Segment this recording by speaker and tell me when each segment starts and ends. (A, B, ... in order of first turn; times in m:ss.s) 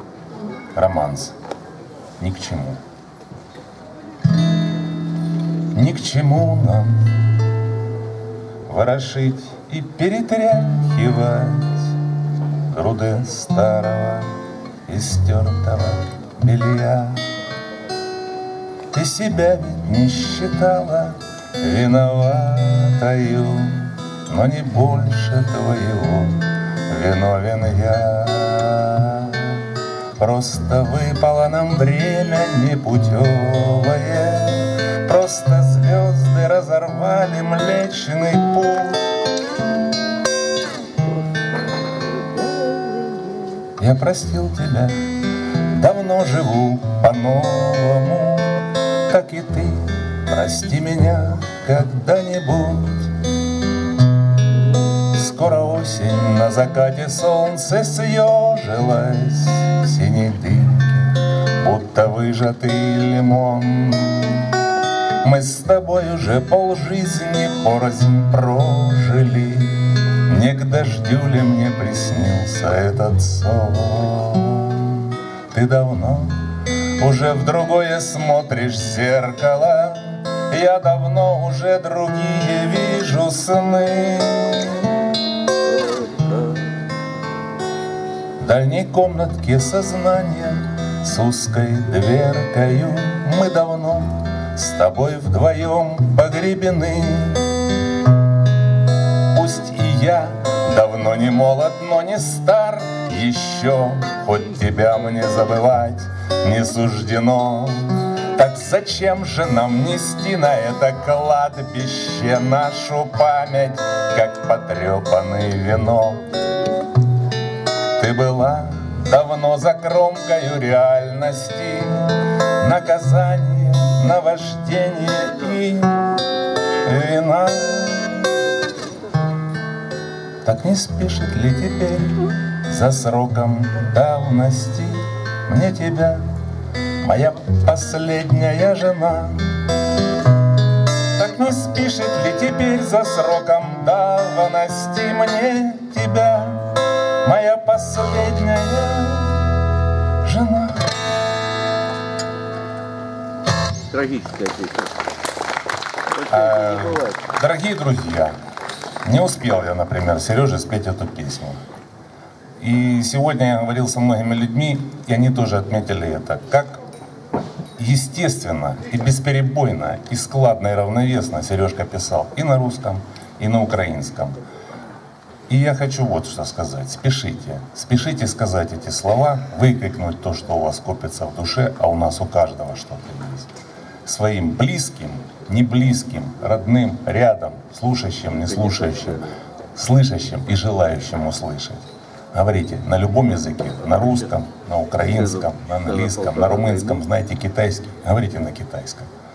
0:00.7-0:01.3 A
0:02.2-0:02.8 A
0:05.7-0:07.3 A
0:08.7-0:12.0 A
0:12.7-0:17.2 A
0:18.9-0:29.6 A
0:30.2-0:39.1 A
0:41.8-0:43.6 B
0:43.8-0:45.0 A
0:45.6-0:53.1 A
0:55.0-1:04.6 A
1:05.2-1:25.0 A
1:25.7-1:26.7 B
1:28.4-1:37.6 A
1:39.3-1:56.3 A
1:58.0-2:06.1 A
2:06.8-2:08.2 A
2:10.4-2:16.2 A
2:17.0-2:19.6 A
2:21.2-2:29.5 A
2:30.2-2:30.9 A
2:33.9-2:34.9 B
2:36.2-2:37.2 B
2:36.3-2:38.4 A
2:39.0-2:41.6 A
2:42.6-2:46.8 A
2:47.8-2:54.4 A
2:55.5-3:03.5 A
3:04.0-3:19.1 A
3:16.0-3:16.8 B